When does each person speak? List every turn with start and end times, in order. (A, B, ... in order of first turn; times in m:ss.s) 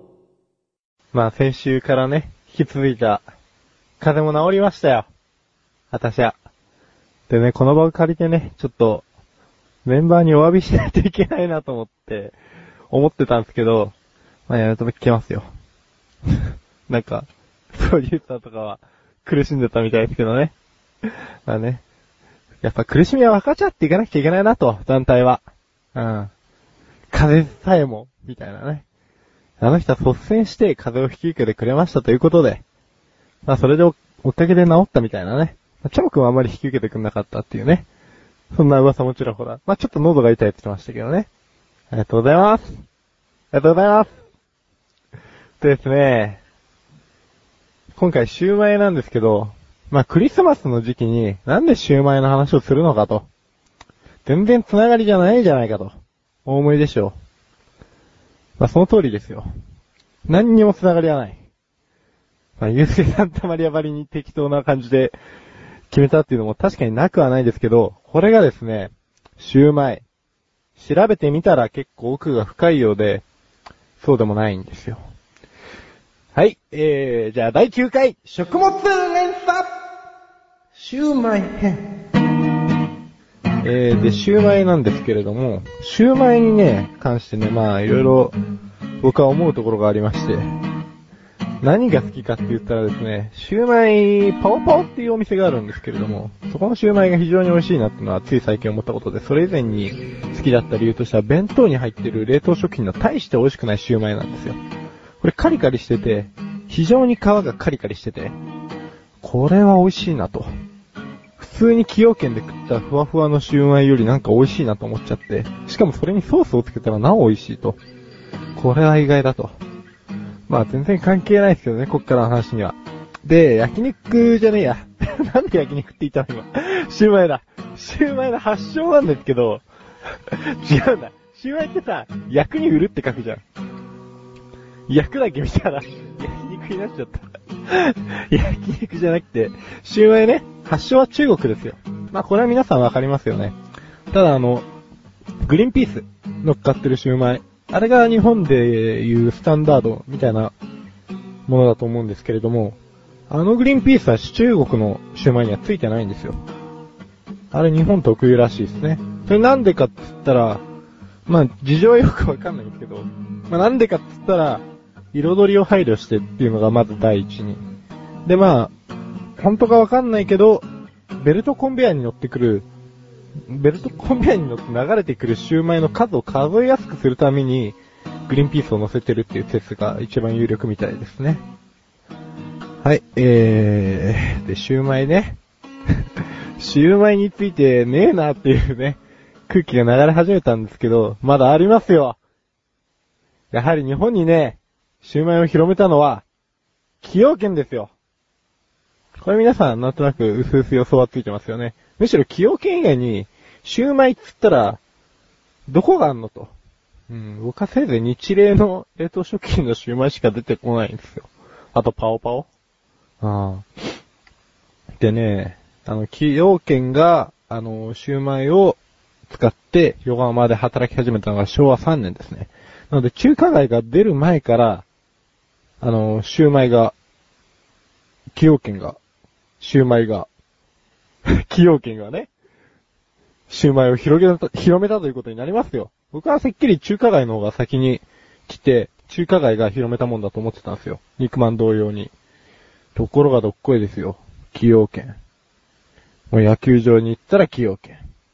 0:01.1-0:03.2 A
0:04.0-0:05.1 A
0:05.9-0:06.4 A
0:07.3-0:09.0 A
0:09.8-0:12.4 A
0:12.9-0:13.9 A
0:14.5-0:15.4 A
0:16.3-0:20.5 A
0:21.0-0:21.8 A
0:22.6-0:25.4 A
0:25.9-0:26.3 A
0:27.1-0:28.8 A
0:29.6-0:32.6 A
0:33.4-0:37.9 A
0:38.5-0:41.3 A
0:41.9-0:42.8 A
0:43.5-0:44.1 A
0:45.6-0:46.4 A
0:48.0-0:53.3 A
0:54.2-0:55.9 A
0:56.4-0:57.1 A
0:58.6-0:59.4 A
1:00.2-1:01.4 A
1:02.6-1:05.2 A
1:05.9-1:10.0 A
1:10.8-1:13.2 A
1:14.0-1:15.0 A
1:16.3-1:19.7 A
1:20.8-1:21.8 A
1:23.6-1:28.4 A
1:29.0-1:30.4 A
1:31.6-1:44.6 A
1:45.2-1:48.3 A
1:49.2-1:50.5 A
1:51.4-1:57.8 A
1:58.6-1:59.6 A
2:00.5-2:09.6 A
2:10.3-2:13.4 A
2:14.9-2:23.5 A
2:24.1-2:24.7 A
2:25.4-2:30.5 A
2:31.5-2:32.8 A
2:33.3-2:36.4 A
2:37.5-2:40.6 A
2:41.3-2:47.6 A
2:48.2-2:48.7 A
2:49.4-2:50.6 A
2:51.2-2:52.7 A
2:53.5-3:01.4 A
3:02.8-3:05.4 A
3:06.6-3:12.2 A
3:13.5-3:16.2 A
3:17.0-3:17.9 A
3:19.2-3:24.8 A
3:25.7-3:26.5 A
3:27.1-3:32.5 A
3:33.2-3:33.9 A
3:35.0-3:44.8 A
3:45.8-3:46.9 A
3:48.3-3:49.0 A
3:49.6-3:50.3 A
3:51.3-3:52.3 A
3:53.5-4:02.1 A
4:02.9-4:05.2 A
4:06.3-4:08.0 A